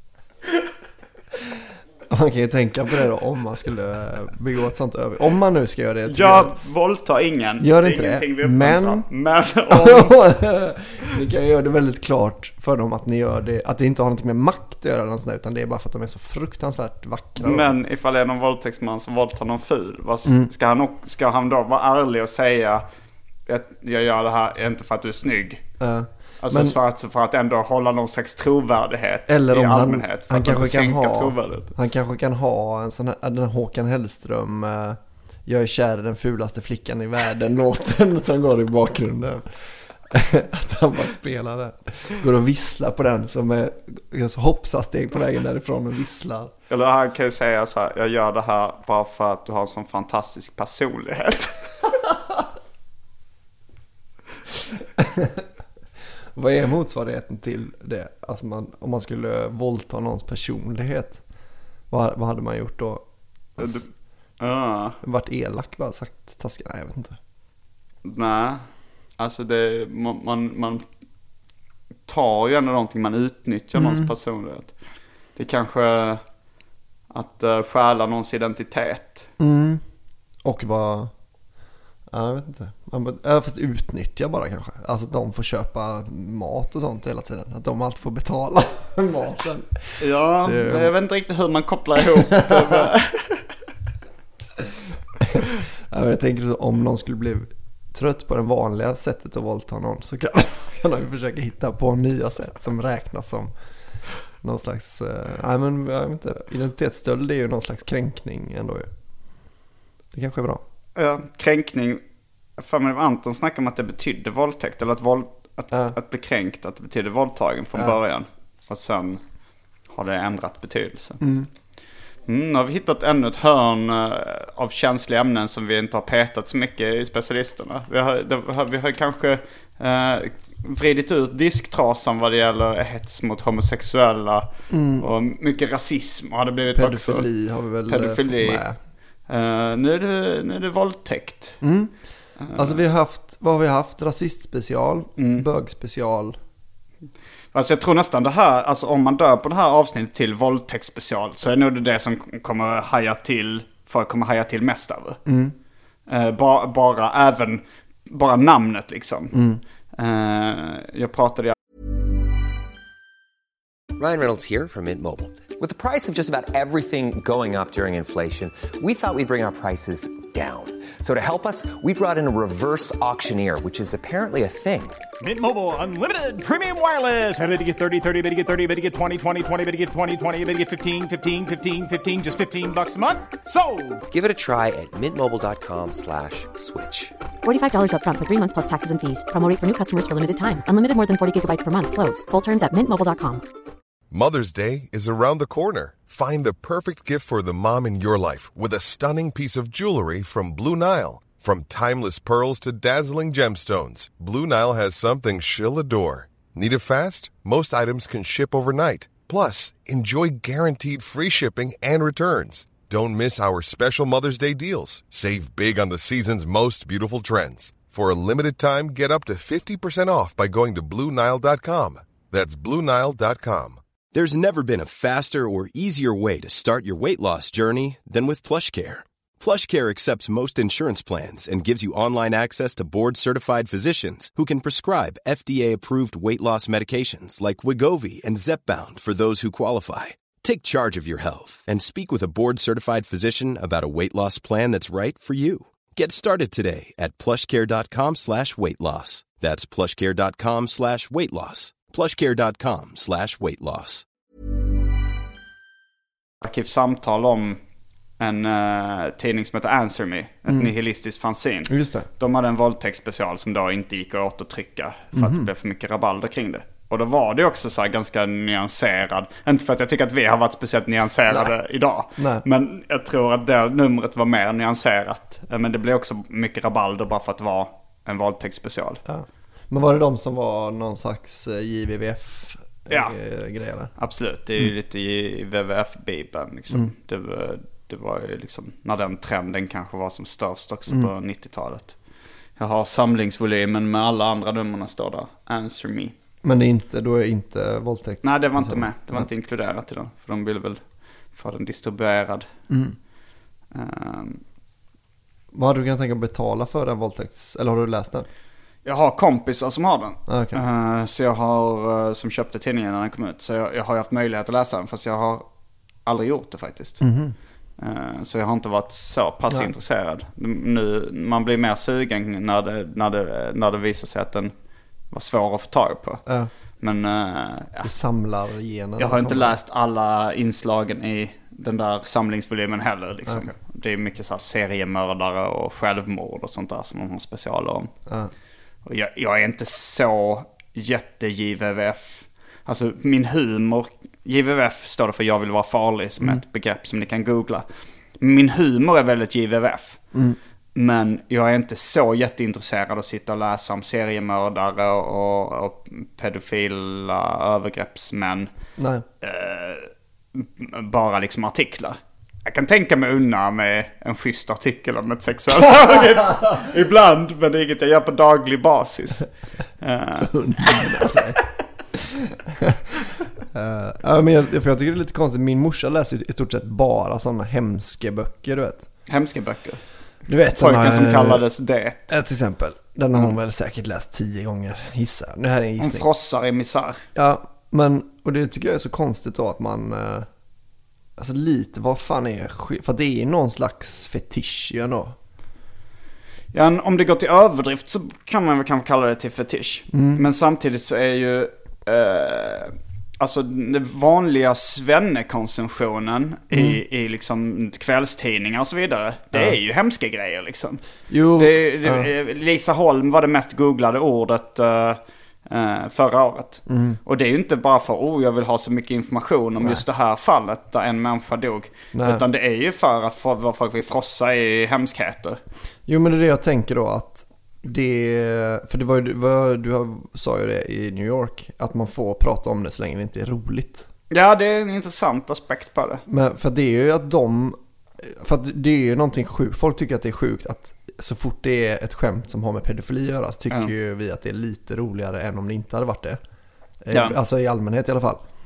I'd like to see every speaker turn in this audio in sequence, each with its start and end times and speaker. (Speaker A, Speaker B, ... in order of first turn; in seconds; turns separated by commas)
Speaker A: 2.1-6.5, Speaker B: 6.1-10.1, Speaker A: 7.6-9.1, Speaker A: 9.7-17.8, Speaker B: 17.4-22.8, Speaker A: 20.2-20.5, Speaker B: 23.5-25.6, Speaker A: 25.8-26.8, Speaker B: 26.4-31.7, Speaker A: 29.3-46.5, Speaker B: 46.7-51.6, Speaker A: 55.0-55.4, Speaker A: 56.3-61.2, Speaker A: 61.9-63.0, Speaker A: 63.6-63.9, Speaker B: 63.6-63.9, Speaker B: 64.4-65.0, Speaker A: 65.0-67.2, Speaker B: 68.0-68.7, Speaker B: 69.2-70.8, Speaker B: 72.1-74.7, Speaker A: 73.7-74.1, Speaker B: 75.3-76.2, Speaker B: 77.1-79.3, Speaker A: 79.4-79.8, Speaker A: 80.4-81.1, Speaker A: 82.1-90.9, Speaker B: 90.0-93.4, Speaker A: 92.3-92.8, Speaker A: 95.3-103.5, Speaker A: 104.4-108.9, Speaker A: 110.1-110.6, Speaker B: 111.0-112.0, Speaker B: 112.6-119.2, Speaker A: 115.7-116.0, Speaker B: 119.9-121.2, Speaker A: 121.2-121.5, Speaker B: 122.3-134.5, Speaker A: 134.7-135.1, Speaker B: 135.0-137.3, Speaker A: 136.7-138.8, Speaker B: 137.9-138.6, Speaker B: 139.3-141.6, Speaker A: 141.6-141.9, Speaker B: 142.4-142.8, Speaker A: 142.5-146.4, Speaker B: 145.2-145.4, Speaker B: 147.5-155.2, Speaker A: 155.2-155.5, Speaker B: 156.1-159.3, Speaker A: 159.3-159.6, Speaker B: 159.9-161.5, Speaker C: 163.9-175.0, Speaker D: 175.2-184.0, Speaker C: 184.1-187.1, Speaker E: 187.4-193.4, Speaker F: 194.1-223.8, Speaker G: 224.1-254.0, Speaker B: 256.4-257.6, Speaker B: 258.2-279.0, Speaker A: 261.7-262.1, Speaker A: 265.1-265.5, Speaker A: 272.2-272.4, Speaker A: 279.0-283.9, Speaker B: 284.0-291.9, Speaker B: 292.6-296.1, Speaker A: 296.4-299.3, Speaker B: 298.2-300.8, Speaker B: 301.3-302.5, Speaker A: 302.7-302.9, Speaker B: 303.7-304.4, Speaker A: 305.5-308.3, Speaker B: 308.8-315.4, Speaker A: 310.3-310.6, Speaker B: 316.1-317.0, Speaker A: 317.0-317.3, Speaker B: 317.8-324.5, Speaker B: 325.1-326.2, Speaker B: 326.8-327.9, Speaker A: 327.8-329.6, Speaker B: 329.0-337.9, Speaker A: 333.3-333.5, Speaker A: 338.1-338.3, Speaker B: 338.8-347.6, Speaker B: 348.2-350.0, Speaker A: 350.1-350.4, Speaker B: 350.7-358.5, Speaker A: 358.8-359.0, Speaker B: 359.2-369.3, Speaker B: 369.8-371.1, Speaker A: 370.2-371.4, Speaker A: 371.9-372.9, Speaker A: 373.5-378.9, Speaker B: 379.1-379.8, Speaker A: 380.2-381.4, Speaker B: 380.5-382.1, Speaker A: 382.1-386.1, Speaker B: 385.8-387.0, Speaker A: 387.1-390.3, Speaker A: 391.2-395.1, Speaker B: 396.5-410.8, Speaker A: 399.9-400.2, Speaker A: 406.5-406.8, Speaker A: 411.1-412.1, Speaker B: 411.4-425.4, Speaker A: 416.7-417.0, Speaker A: 421.9-422.2, Speaker A: 425.9-433.9, Speaker B: 434.1-436.0, Speaker A: 436.1-446.2, Speaker A: 446.8-448.2